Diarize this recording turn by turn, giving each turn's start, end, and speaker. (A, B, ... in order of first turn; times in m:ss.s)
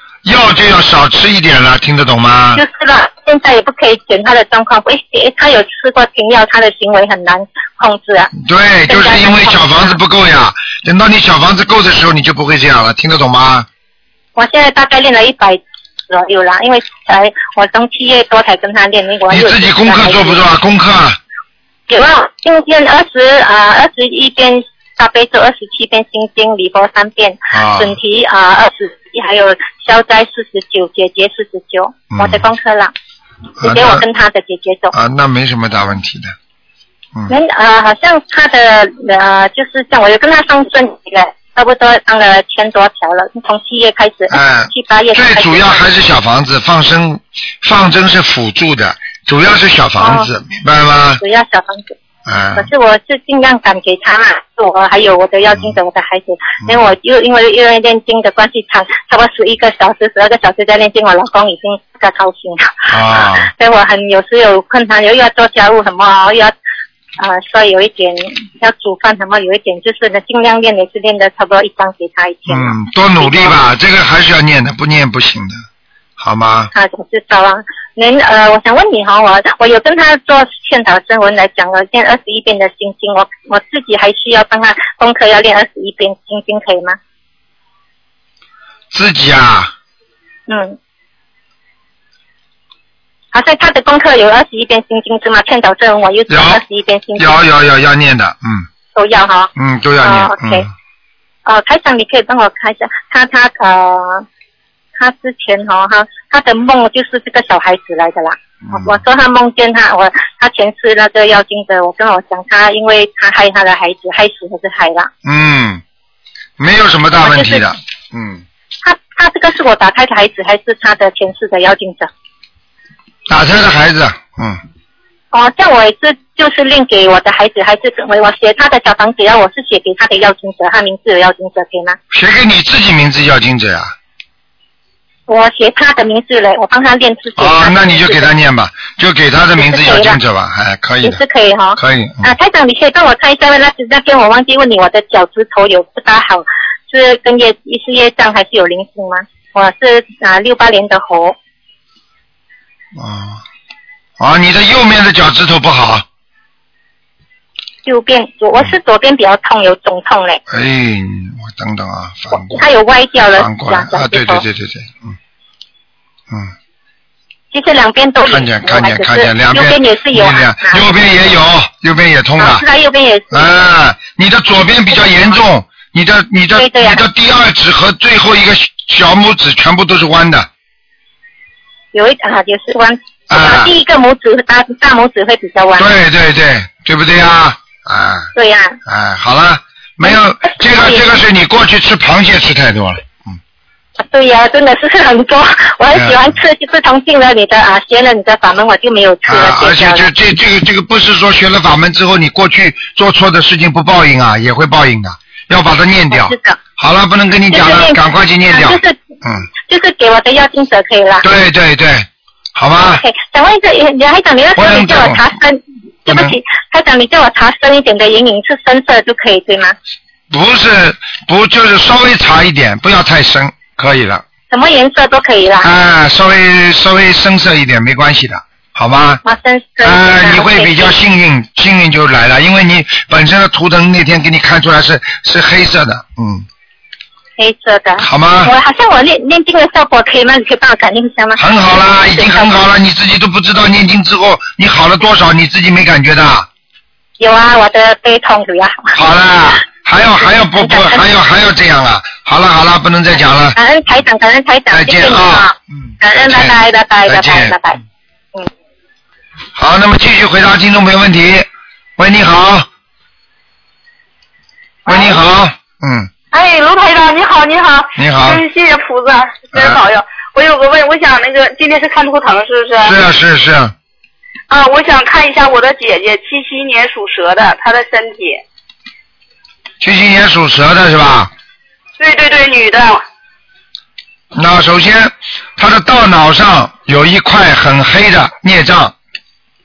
0:00.2-0:02.6 A
0:02.6-0:08.3 B
0:08.4-0:13.7 A
0:08.9-0:10.0 B
0:14.4-0:20.4 B
0:19.3-0:21.2 A
0:21.9-0:32.9 B
0:27.5-0:28.0 A
0:32.1-0:32.4 A
0:33.6-0:34.0 A
0:33.6-0:34.9 B
0:34.9-0:36.4 A
0:37.3-0:45.8 B
0:44.3-0:51.2 A
0:50.0-0:50.3 B
0:51.2-0:52.0 B
0:52.3-0:52.7 A
0:52.6-1:06.6 B
0:56.6-0:56.9 A
1:02.9-1:03.5 A
1:07.2-1:13.6 B
1:12.5-1:15.6 A
1:16.2-1:16.7 A
1:16.7-1:27.0 B
1:28.9-1:29.7 A
1:30.5-1:30.8 B
1:33.3-1:37.3 B
1:36.3-1:36.6 A
1:37.2-1:38.7 A
1:38.9-1:40.6 B
1:39.6-1:40.7 A
1:41.5-1:44.3 B
1:45.0-1:55.1 B
1:48.6-1:49.0 A
1:55.2-1:55.8 A
1:56.6-1:58.4 A
1:57.2-1:57.6 B
1:58.8-2:02.1 B
2:03.3-2:04.6 A
2:05.3-2:12.0 B
2:12.1-2:13.9 A
2:15.3-2:18.2 B
2:17.4-2:21.2 A
2:19.6-2:20.2 B
2:21.0-2:31.4 B
2:21.8-2:22.3 A
2:33.0-2:33.4 A
2:34.2-2:36.0 A
2:37.8-2:40.4 B
2:40.5-2:42.6 A
2:42.4-2:44.4 B
2:43.4-2:45.2 A
2:47.5-2:50.8 B
2:48.2-2:52.6 A
2:52.4-2:53.5 B
2:53.3-3:00.5 A
2:56.6-2:57.0 B
3:01.9-3:05.9 B
3:03.3-3:03.7 A
3:05.8-3:08.3 A
3:08.4-3:08.8 B
3:08.9-3:13.4 A
3:10.1-3:11.1 B
3:14.0-3:20.1 B
3:15.9-3:16.3 A
3:19.3-3:29.5 A
3:26.1-3:26.6 B
3:27.5-3:29.0 B
3:29.6-3:31.2 B
3:31.2-3:33.0 A
3:32.8-3:39.8 B
3:34.6-3:35.2 A
3:36.1-3:36.4 A
3:40.3-3:44.2 A
3:44.5-3:45.7 B
3:45.6-3:49.2 A
3:49.2-3:50.9 B
3:49.8-3:56.5 A
3:57.4-4:02.5 B
3:58.0-3:58.5 A
4:01.4-4:06.5 A
4:07.2-4:09.0 B
4:09.0-4:13.6 A
4:10.6-4:11.0 B
4:13.6-4:17.8 B
4:14.7-4:17.6 A
4:19.6-4:22.7 A
4:24.9-4:26.1 A
4:24.9-4:25.1 C
4:26.3-4:33.0 C
4:28.0-4:28.4 A
4:29.5-4:29.8 A
4:32.8-4:33.7 A
4:34.5-4:38.4 C
4:39.8-4:41.3 A
4:42.0-4:43.0 C
4:44.4-4:48.9 A